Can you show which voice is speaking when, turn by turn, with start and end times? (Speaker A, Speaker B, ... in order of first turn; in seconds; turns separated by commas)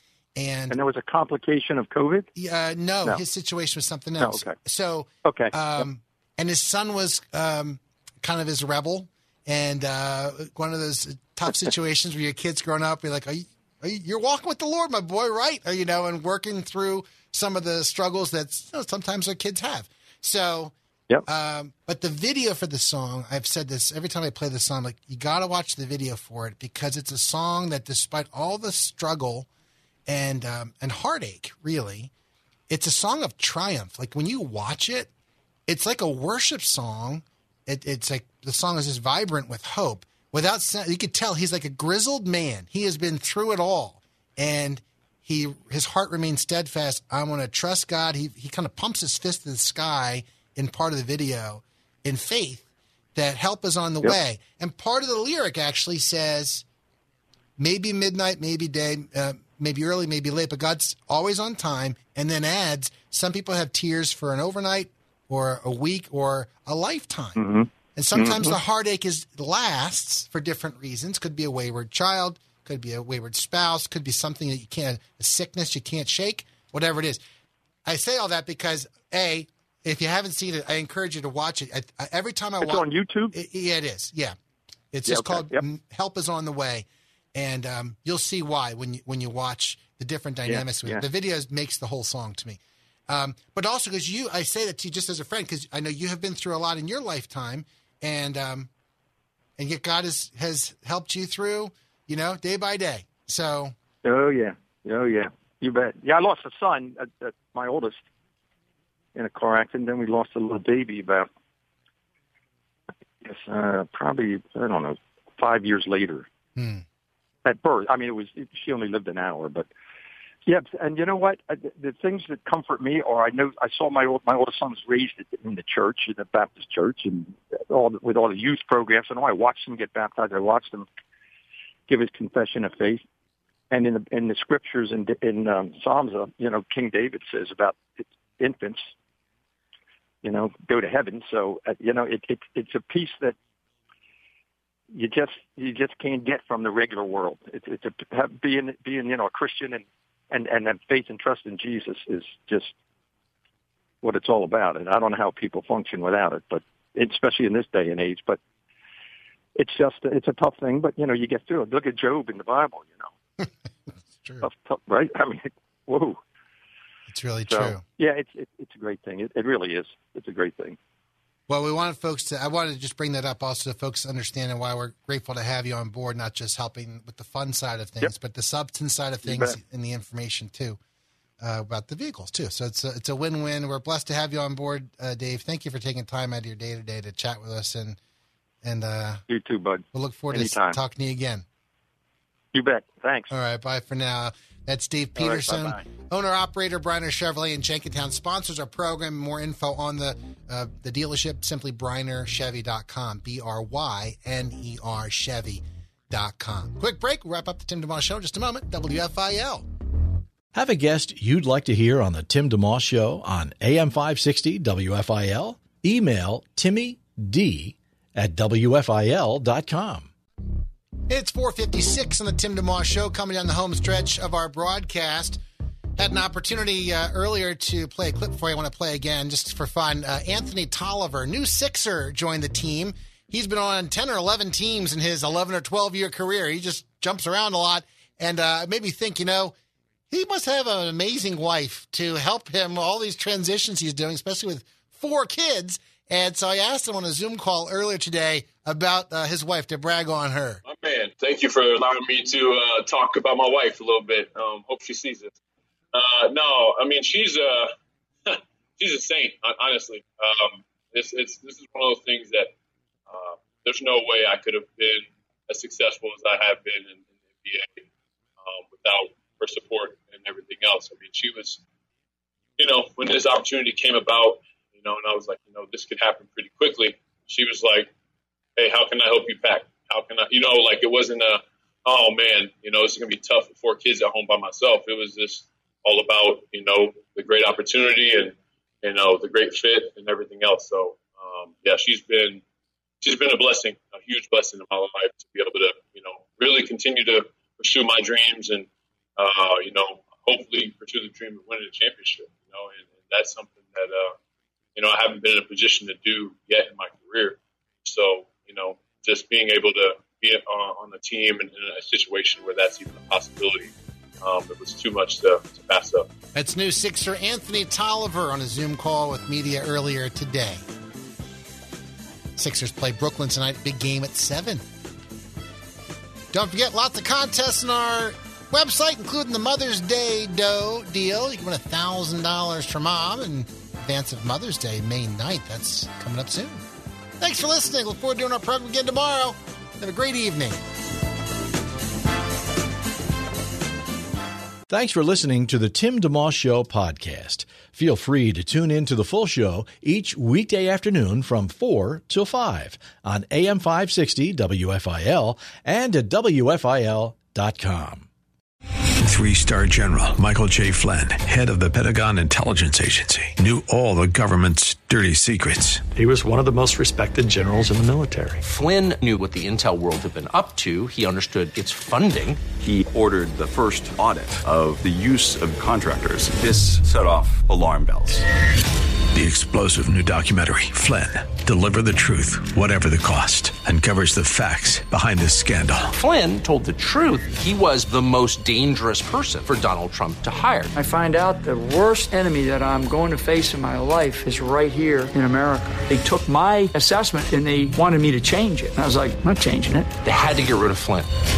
Speaker A: 0.4-0.8, Speaker B: 0.7-2.3, Speaker A: 2.4-20.7, Speaker B: 4.2-4.6, Speaker B: 5.2-5.9, Speaker A: 21.3-29.5, Speaker A: 30.1-32.1, Speaker A: 32.7-35.1, Speaker A: 35.7-56.6, Speaker A: 57.6-67.4, Speaker B: 67.4-68.5, Speaker A: 68.0-77.2, Speaker A: 77.8-84.4, Speaker B: 82.6-83.3, Speaker A: 84.9-98.7, Speaker B: 85.1-85.6, Speaker B: 90.5-91.0, Speaker A: 99.6-103.8, Speaker B: 104.0-108.0, Speaker B: 109.2-111.3, Speaker B: 113.2-116.3, Speaker A: 116.6-116.8, Speaker B: 117.5-119.7, Speaker B: 120.5-130.9, Speaker B: 131.9-133.0, Speaker B: 133.7-138.9, Speaker B: 140.2-143.4, Speaker B: 144.9-152.7, Speaker B: 154.0-158.4, Speaker B: 159.6-163.1, Speaker A: 164.2-164.5, Speaker B: 164.4-166.2, Speaker A: 167.1-167.8, Speaker B: 167.5-170.8, Speaker A: 171.5-180.8, Speaker B: 179.2-179.6, Speaker A: 181.4-188.0, Speaker A: 188.6-189.2, Speaker B: 189.3-190.8, Speaker A: 189.9-191.4, Speaker B: 192.5-193.3, Speaker A: 193.3-209.7, Speaker B: 195.2-195.8, Speaker C: 210.5-220.1, Speaker A: 221.1-225.4, Speaker A: 226.0-239.6, Speaker A: 240.1-250.6, Speaker D: 250.7-255.3, Speaker D: 255.9-257.7, Speaker D: 258.3-262.5, Speaker D: 263.1-267.8, Speaker D: 268.4-271.6, Speaker D: 272.6-277.9, Speaker D: 278.6-292.4, Speaker D: 293.0-304.1, Speaker D: 304.8-316.1, Speaker A: 316.3-320.6, Speaker A: 322.4-324.6, Speaker A: 326.3-336.6, Speaker A: 337.2-340.6, Speaker C: 344.7-358.1, Speaker E: 359.0-365.9, Speaker F: 365.9-368.4, Speaker G: 368.4-372.5, Speaker H: 372.5-378.3, Speaker E: 379.1-385.9, Speaker G: 385.9-390.7, Speaker I: 390.8-399.9, Speaker G: 400.0-401.1